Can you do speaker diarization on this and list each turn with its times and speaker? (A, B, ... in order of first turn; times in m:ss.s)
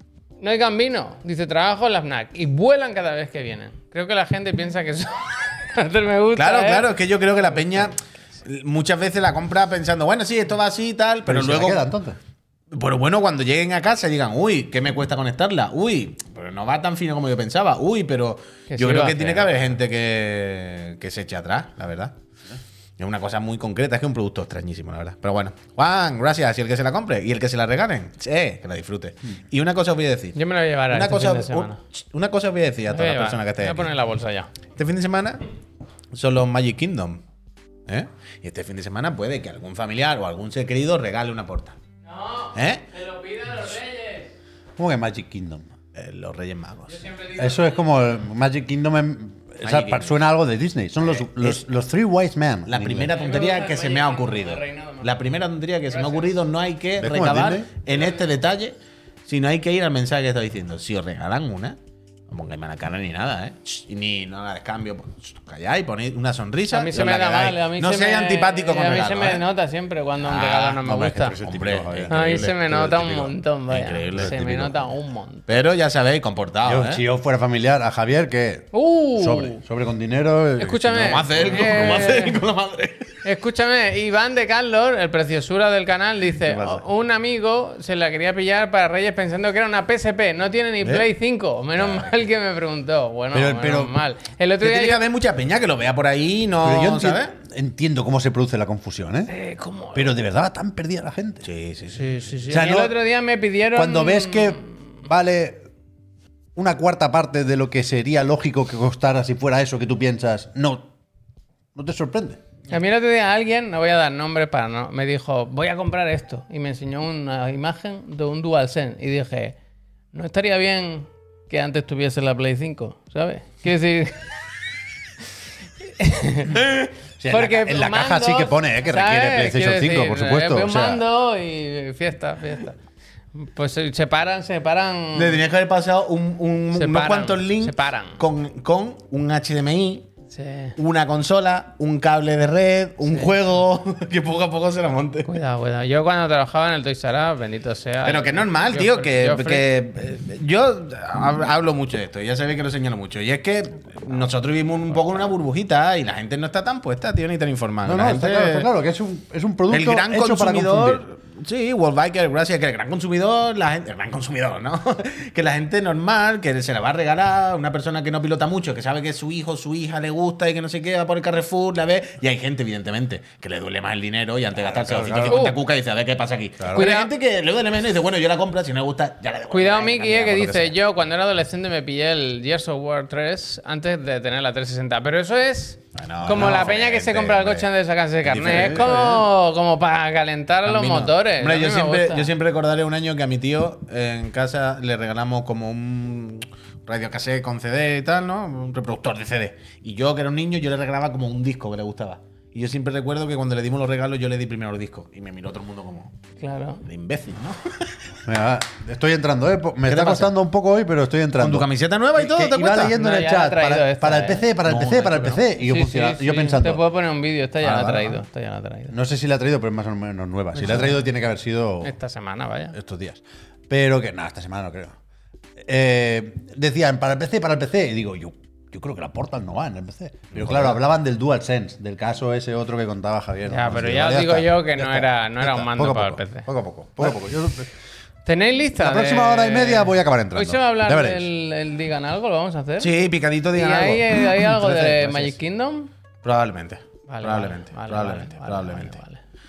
0:00.4-0:06.9 A
0:06.4-0:11.8 B
0:11.2-0:12.2 C
0:12.7-0:22.1 B
0:18.7-0:19.5 A
0:23.0-0:30.4 B
0:30.3-0:31.8 A
0:30.9-0:33.9 B
0:32.9-0:34.5 A
0:34.7-0:35.4 B
0:36.1-0:37.2 B
0:37.9-0:41.8 B
0:42.0-0:44.3 A
0:42.5-0:42.8 B
0:44.8-0:45.7 C
0:45.9-0:47.0 B
0:46.9-0:47.9 A
0:47.4-0:53.1 C
0:49.6-0:50.2 B
0:51.1-0:51.6 B
0:52.7-0:58.7 B
0:53.1-0:55.2 A
0:55.9-0:56.3 A
0:57.0-0:57.7 C
0:57.9-0:58.2 A
0:59.2-1:01.8 B
1:02.3-1:09.4 B
1:06.7-1:11.3 A
1:10.3-1:10.6 B
1:10.6-1:13.4 C
1:11.4-1:12.6 B
1:12.1-1:15.5 A
1:13.7-1:14.7 B
1:14.1-1:14.7 C
1:15.5-1:17.0 B
1:16.6-1:21.9 C
1:18.7-1:19.6 A
1:20.6-1:22.4 A
1:21.0-1:23.1 B
1:23.2-1:35.0 A
1:26.4-1:26.8 C
1:31.8-1:32.1 B
1:33.3-1:33.9 C
1:34.6-1:37.3 B
1:36.6-1:39.3 C
1:39.3-1:40.1 A
1:39.9-1:41.5 C
1:41.4-1:42.1 B
1:41.9-1:44.8 A
1:42.5-1:43.0 C
1:43.7-1:45.6 C
1:46.5-1:50.9 C
1:51.7-1:52.4 C
1:52.7-1:59.6 A
2:00.1-2:04.2 A
2:05.8-2:06.6 A
2:07.2-2:11.0 C
2:07.3-2:12.8 A
2:13.4-2:15.4 A
2:15.1-2:20.1 B
2:16.7-2:18.2 A
2:20.3-2:20.7 A
2:20.8-2:25.3 B
2:23.1-2:23.3 A
2:25.2-2:29.7 A
2:28.0-2:38.7 B
2:37.8-2:41.0 C
2:39.7-3:00.8 B
2:54.6-2:55.5 C
2:55.3-2:55.6 A
2:56.6-2:56.9 C
2:56.7-2:57.1 A
2:59.5-3:12.3 A
3:05.9-3:07.7 B
3:06.2-3:06.7 C
3:08.2-3:09.2 B
3:08.3-3:09.1 C
3:10.6-3:26.1 B
3:26.4-3:26.8 A
3:26.8-3:27.9 B
3:28.2-3:36.8 C
3:29.9-3:30.3 B
3:31.4-3:32.9 B
3:32.8-3:34.5 A
3:34.6-3:35.4 B
3:35.5-3:38.9 A
3:37.6-3:38.2 C
3:38.9-3:41.9 C
3:40.6-3:41.0 A
3:41.8-3:42.8 A
3:42.7-3:44.9 C
3:45.6-3:57.7 C
3:50.3-3:50.7 B
3:53.5-3:56.5 A
3:58.2-4:02.9 A
3:58.8-4:01.2 C
4:02.8-4:05.3 B
4:03.5-4:05.9 A
4:06.2-4:09.0 B
4:07.1-4:09.2 A